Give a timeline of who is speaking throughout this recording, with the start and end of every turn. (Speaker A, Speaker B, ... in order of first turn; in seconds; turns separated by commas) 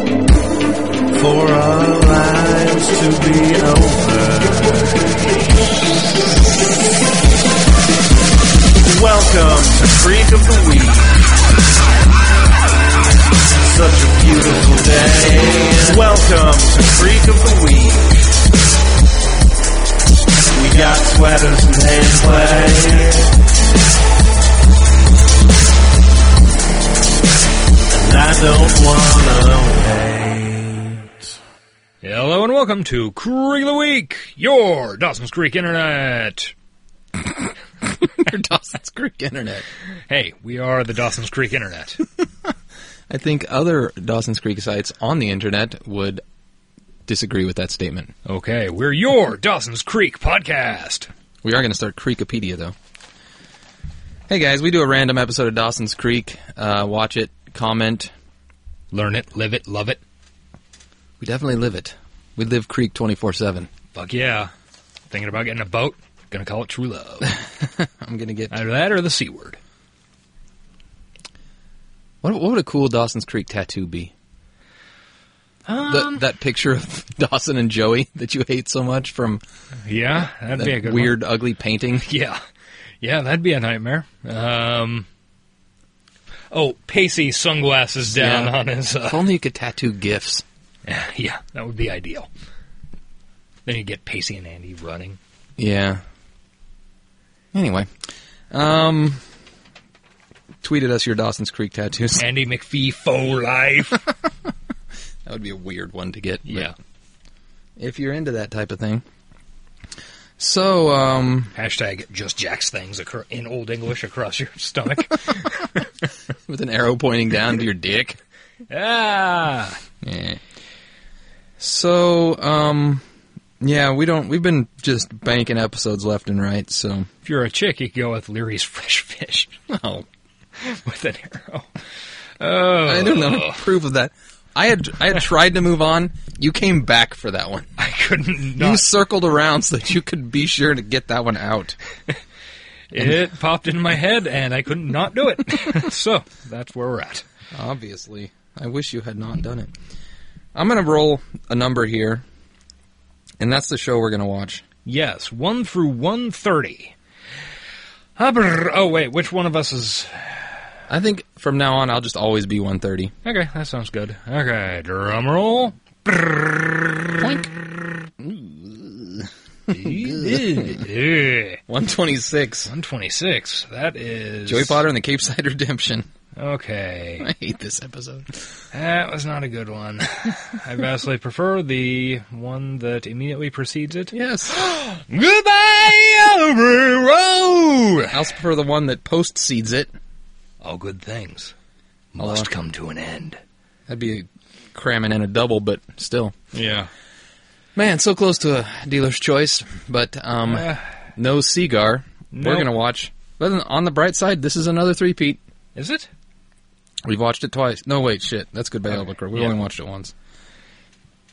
Speaker A: 1.1-5.2, Speaker A: 8.8-11.3, Speaker A: 13.6-18.2, Speaker A: 20.5-23.3, Speaker A: 27.9-31.3, Speaker B: 32.0-36.5, Speaker C: 37.4-39.7, Speaker B: 40.1-42.0, Speaker C: 43.1-46.2, Speaker C: 47.1-48.1, Speaker B: 48.2-51.1, Speaker C: 51.4-52.7, Speaker C: 54.3-58.1, Speaker B: 58.9-60.0, Speaker C: 61.2-63.7, Speaker B: 63.9-64.5, Speaker B: 65.1-67.3, Speaker C: 67.2-68.6, Speaker B: 68.5-69.6, Speaker C: 72.2-74.1, Speaker B: 75.6-76.3, Speaker C: 75.8-79.4, Speaker B: 79.8-81.3, Speaker C: 80.5-82.1, Speaker B: 82.0-82.4, Speaker B: 83.0-85.1, Speaker B: 86.5-89.3, Speaker C: 88.1-90.4, Speaker B: 90.8-92.3, Speaker B: 93.7-95.2, Speaker C: 95.6-96.0, Speaker C: 97.5-98.0, Speaker C: 98.5-99.3, Speaker C: 100.6-102.2, Speaker B: 102.2-104.1, Speaker C: 105.2-106.7, Speaker B: 106.4-106.7, Speaker C: 107.8-109.0, Speaker C: 110.4-111.5, Speaker B: 111.5-115.7, Speaker C: 116.5-118.2, Speaker B: 118.7-119.8, Speaker C: 120.0-120.4, Speaker C: 121.6-123.0, Speaker C: 123.6-127.1, Speaker B: 127.2-129.6, Speaker C: 129.7-130.1, Speaker B: 130.6-131.7, Speaker B: 132.4-133.7, Speaker C: 132.8-137.7, Speaker B: 137.8-138.9, Speaker C: 138.6-141.8, Speaker B: 142.9-147.2, Speaker C: 147.5-149.7, Speaker C: 150.5-152.2, Speaker C: 153.4-154.6, Speaker B: 154.8-156.9, Speaker B: 158.2-160.5, Speaker C: 160.9-163.1, Speaker B: 163.2-167.3, Speaker C: 167.2-167.5, Speaker C: 168.2-170.8, Speaker B: 169.7-171.6, Speaker C: 171.7-172.7, Speaker B: 172.7-174.8, Speaker C: 174.4-176.1, Speaker B: 176.3-177.3, Speaker C: 177.2-178.6, Speaker B: 178.7-188.2, Speaker C: 184.1-184.7, Speaker C: 188.1-189.9, Speaker B: 190.6-191.5, Speaker B: 192.1-193.4, Speaker C: 192.2-192.5, Speaker C: 193.9-196.3, Speaker B: 196.5-196.9, Speaker C: 197.8-205.4, Speaker B: 200.4-200.9, Speaker B: 202.3-202.7, Speaker B: 205.7-206.1, Speaker C: 207.0-210.1, Speaker B: 208.9-209.6